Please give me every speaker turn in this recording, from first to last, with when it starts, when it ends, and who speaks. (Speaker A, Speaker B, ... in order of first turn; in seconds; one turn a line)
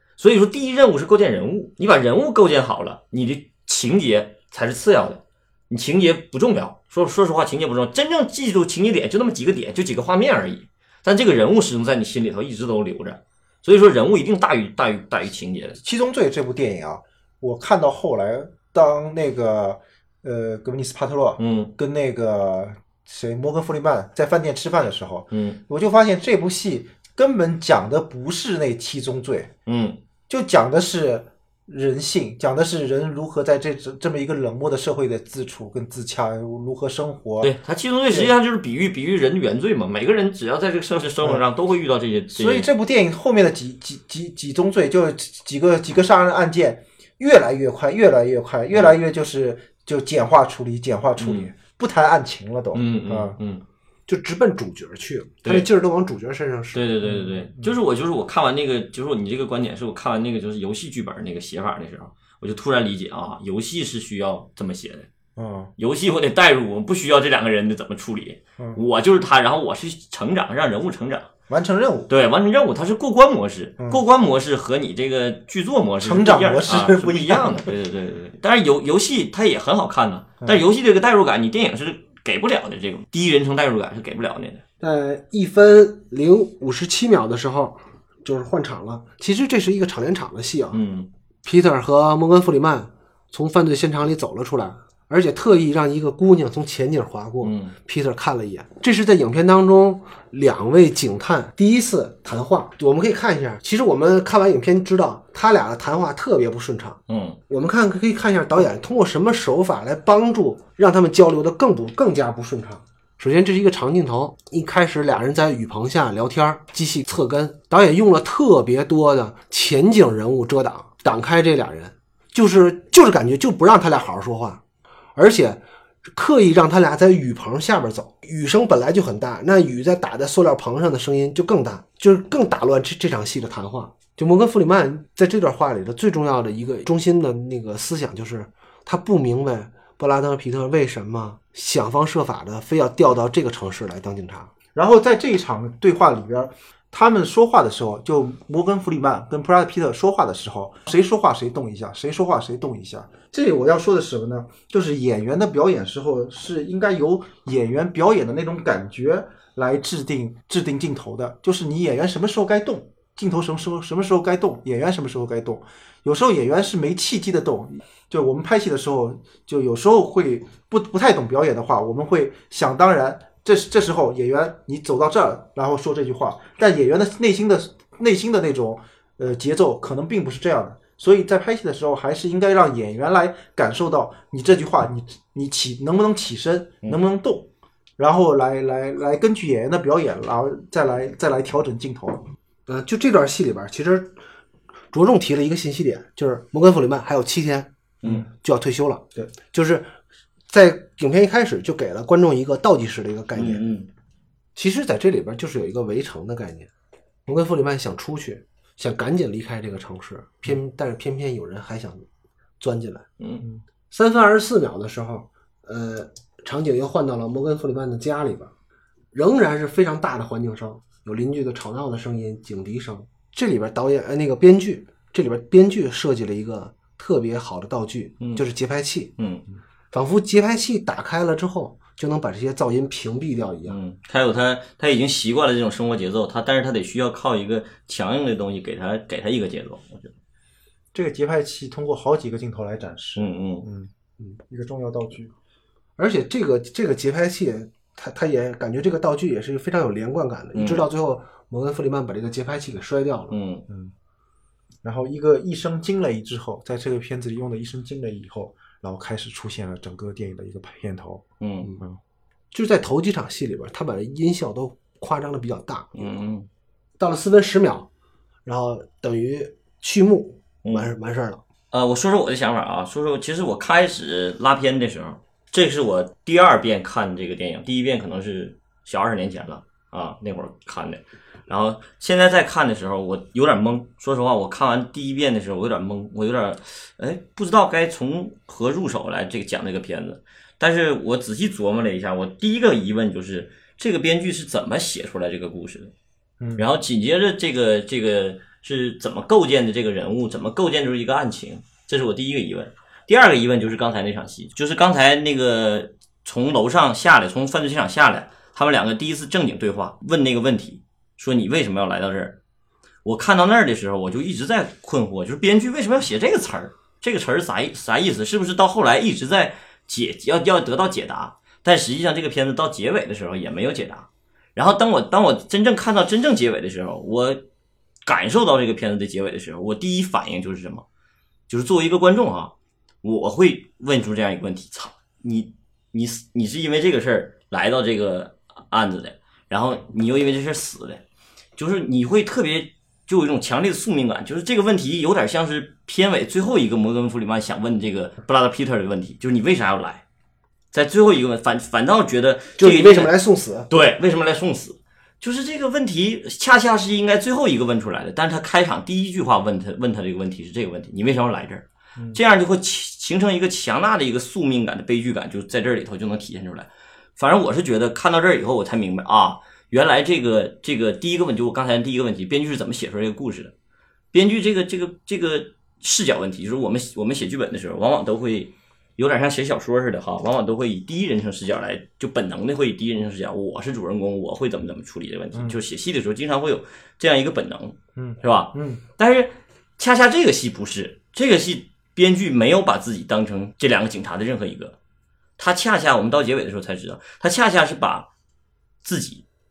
Speaker A: 0.2-15.8
Speaker B: 15.8-29.5
Speaker A: 21.4-21.7
Speaker A: 25.3-25.6
Speaker A: 29.6-30.0
Speaker B: 30.3-37.5
Speaker A: 37.4-42.7
Speaker B: 42.3-53.4
Speaker A: 51.2-51.5
Speaker A: 52.7-53.6
Speaker C: 54.1-56.8
Speaker A: 56.7-65.1
Speaker B: 65.4-65.7
Speaker A: 65.8-71.3
Speaker B: 71.5-72.1
Speaker A: 72.1-84.6
Speaker B: 76.0-77.7
Speaker C: 84.8-90.8
Speaker A: 90.7-91.1
Speaker C: 91.4-124.6
Speaker A: 97.4-97.7
Speaker A: 107.1-107.4
Speaker C: 125.2-144.5
Speaker B: 144.7-192.2
Speaker C: 192.7-194.2
Speaker C: 194.9-197.7
Speaker C: 198.3-199.9
Speaker C: 200.5-203.6
Speaker A: 203.3-203.9
Speaker C: 204.5-206.7
Speaker C: 207.2-212.1
Speaker C: 212.6-213.1
Speaker A: 213.2-213.4
Speaker C: 213.9-218.5
Speaker C: 219.1-229.1
Speaker A: 229.2-229.4
Speaker C: 229.9-233.8
Speaker A: 233.7-240.1
Speaker B: 240.9-243.9
Speaker A: 243.2-243.7
Speaker B: 244.5-245.3
Speaker C: 246.0-253.3
Speaker A: 250.5-250.8
Speaker A: 253.3-253.6
Speaker B: 254.8-261.2
Speaker A: 261.4-261.7
Speaker C: 262.5-266.1
Speaker A: 265.9-266.5
Speaker C: 267.0-267.9
Speaker C: 268.4-271.4
Speaker A: 270.6-270.9
Speaker A: 271.7-295.9
Speaker B: 296.4-296.6
Speaker A: 296.6-312.4
Speaker A: 313.0-327.4
Speaker A: 328.1-330.8
Speaker A: 331.5-341.0
Speaker A: 341.6-350.0
Speaker A: 350.7-353.1
Speaker C: 352.6-353.7
Speaker A: 353.7-373.5
Speaker A: 374.1-394.8
Speaker B: 385.3-385.6
Speaker B: 387.9-388.8
Speaker A: 395.4-398.1
Speaker A: 398.8-399.2